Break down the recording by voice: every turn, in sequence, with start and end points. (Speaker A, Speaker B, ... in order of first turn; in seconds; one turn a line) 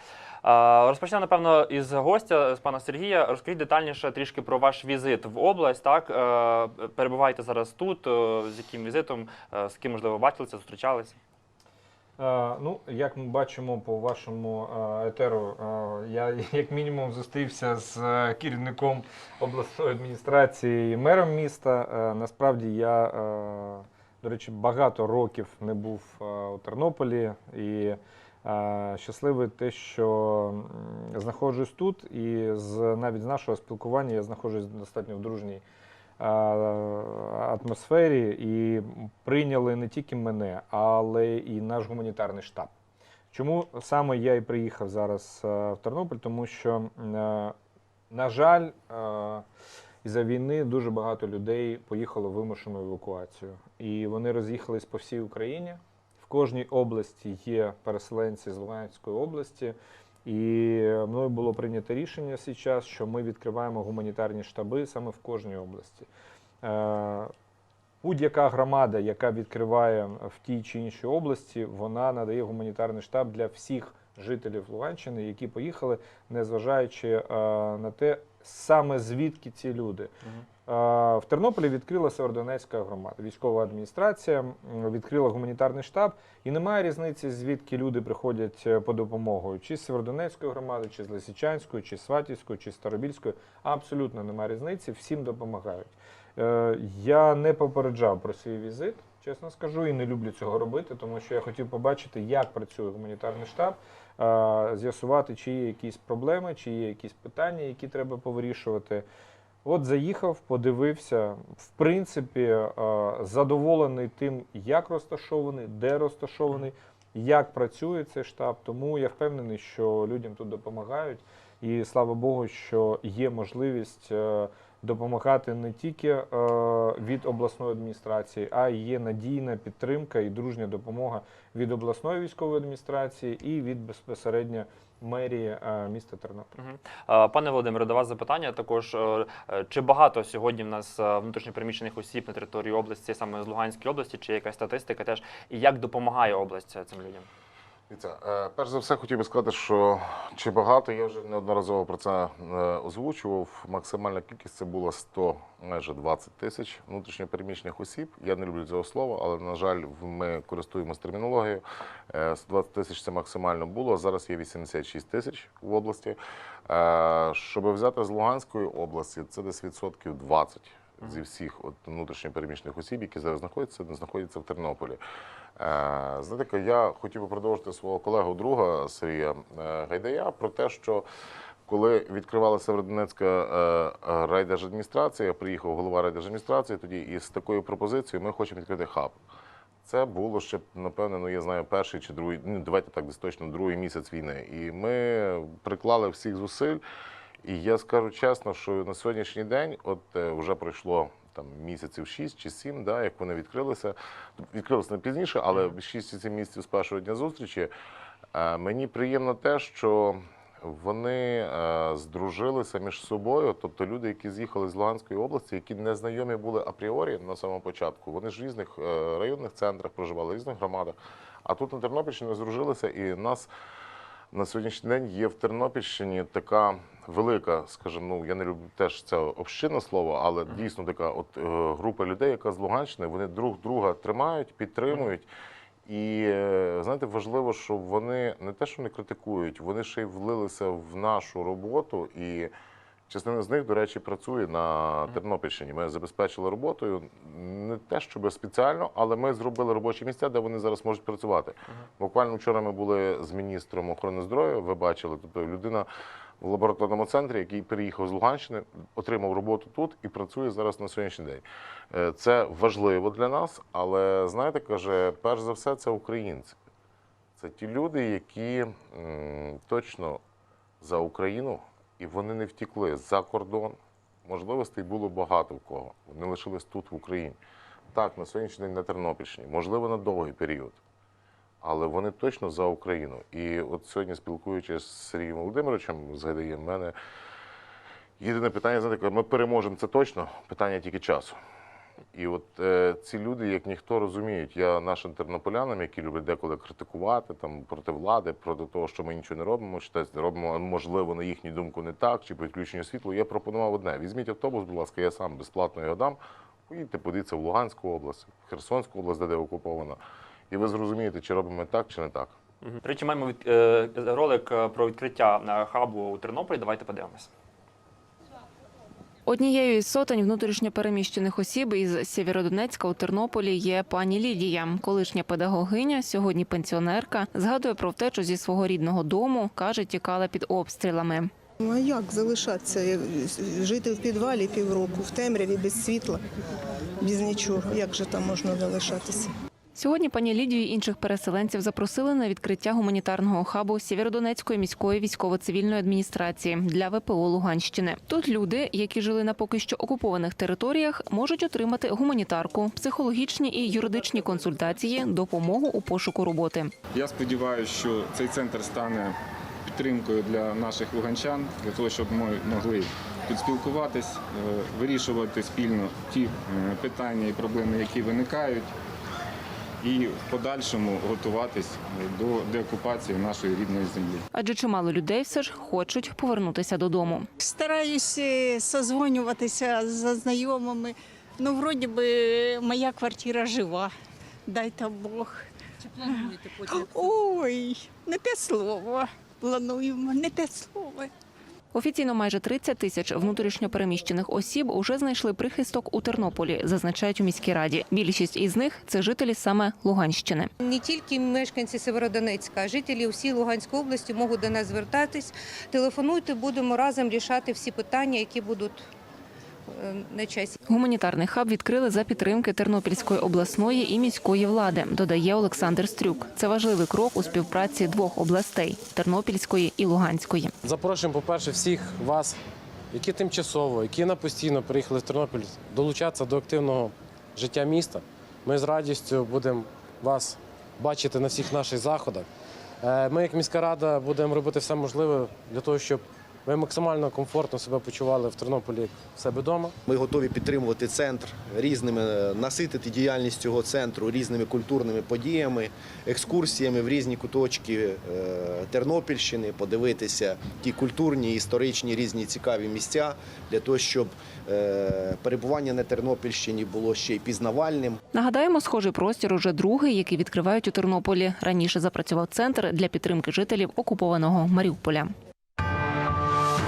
Speaker A: 0.4-11.2
Speaker B: 12.2-35.6
Speaker B: 36.2-42.7
Speaker B: 43.3-47.5
Speaker B: 48.1-49.4
Speaker B: 50.0-66.1
Speaker B: 66.6-67.3
Speaker B: 68.0-80.1
Speaker B: 80.7-109.0
Speaker B: 109.6-136.5
Speaker A: 136.6-147.3
Speaker C: 147.9-175.0
Speaker C: 175.6-181.1
Speaker C: 181.7-189.2
Speaker C: 189.8-196.8
Speaker C: 197.4-207.7
Speaker C: 208.3-223.5
Speaker C: 224.3-235.3
Speaker C: 235.8-242.5
Speaker C: 243.1-255.9
Speaker C: 256.4-266.6
Speaker C: 267.4-270.2
Speaker C: 270.8-277.4
Speaker C: 277.9-280.8
Speaker C: 281.6-286.9
Speaker C: 288.2-291.4
Speaker C: 292.1-310.0
Speaker C: 310.5-312.3
Speaker A: 312.6-317.3
Speaker D: 319.2-331.3
Speaker E: 331.6-336.2
Speaker E: 337.0-339.3
Speaker D: 339.7-356.7
Speaker F: 356.9-368.7
Speaker F: 369.8-374.3
Speaker D: 374.3-377.3
Speaker G: 377.4-383.9
Speaker G: 384.4-391.1
Speaker D: 391.7-400.5
Speaker H: 400.6-408.9
Speaker H: 409.7-410.6
Speaker D: 410.7-420.5
Speaker I: 420.6-422.4
Speaker I: 422.9-432.3
Speaker I: 432.8-439.7
Speaker J: 439.9-458.0
Speaker D: 458.1-465.1